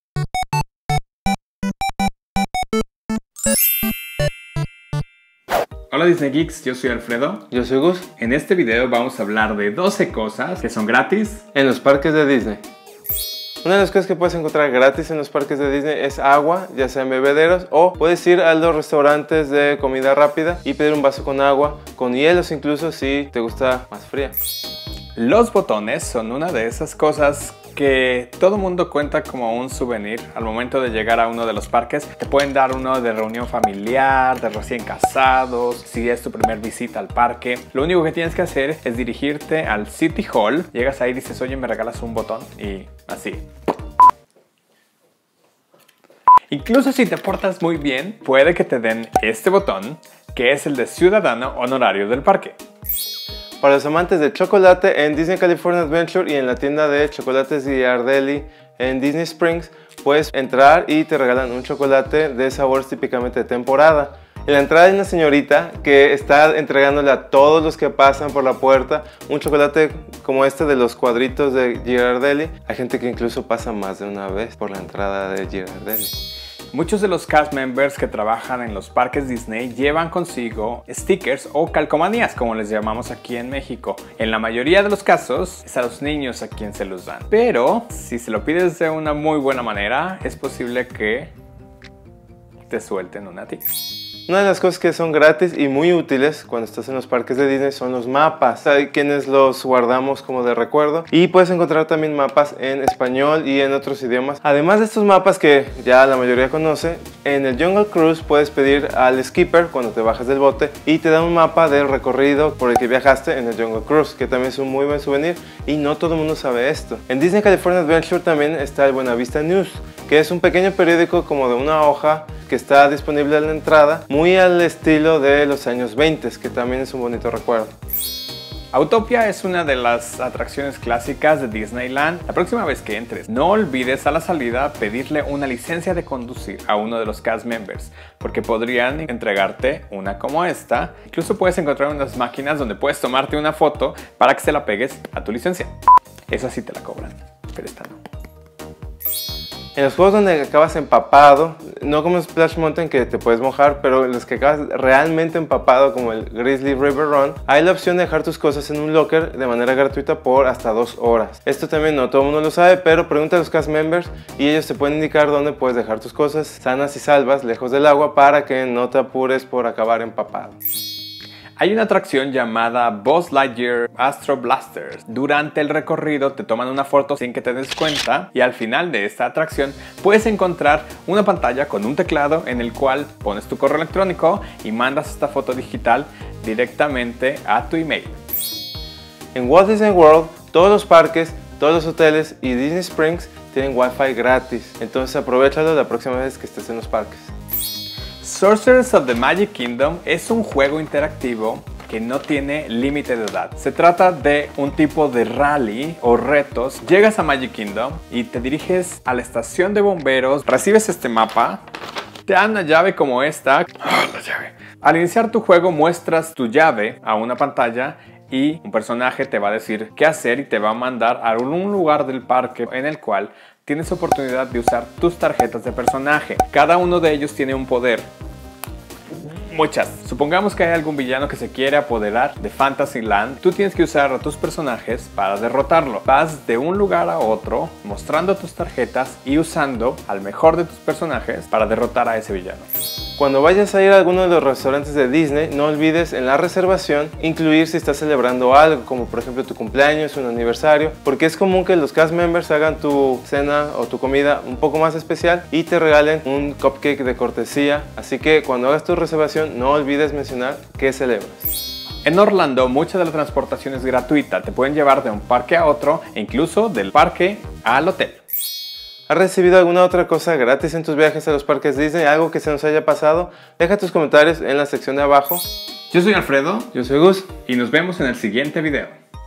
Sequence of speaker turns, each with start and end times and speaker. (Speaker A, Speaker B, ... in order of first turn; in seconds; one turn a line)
Speaker A: 5.9-7.5
Speaker B: 7.5-8.1
Speaker A: 8.2-11.4
Speaker B: 11.5-12.6
Speaker B: 13.6-24.4
Speaker A: 25.1-43.4
Speaker A: 46.5-52.5
Speaker B: 53.6-76.1
Speaker A: 76.7-91.3
Speaker A: 92.7-93.6
Speaker B: 94.3-127.7
Speaker A: 128.7-145.7
Speaker A: 146.3-148.0
Speaker B: 149.7-170.6
Speaker A: 171.6-188.2
Speaker B: 189.3-197.3
Speaker A: 198.2-211.6
Speaker A: 212.3-228.1
Speaker A: 229.2-242.6
Speaker B: 243.2-261.5
Speaker A: 262.0-268.2
Speaker B: 269.1-275.5
Speaker A: 275.9-276.7
Speaker B: 276.7-277.3
Speaker A: 277.4-278.9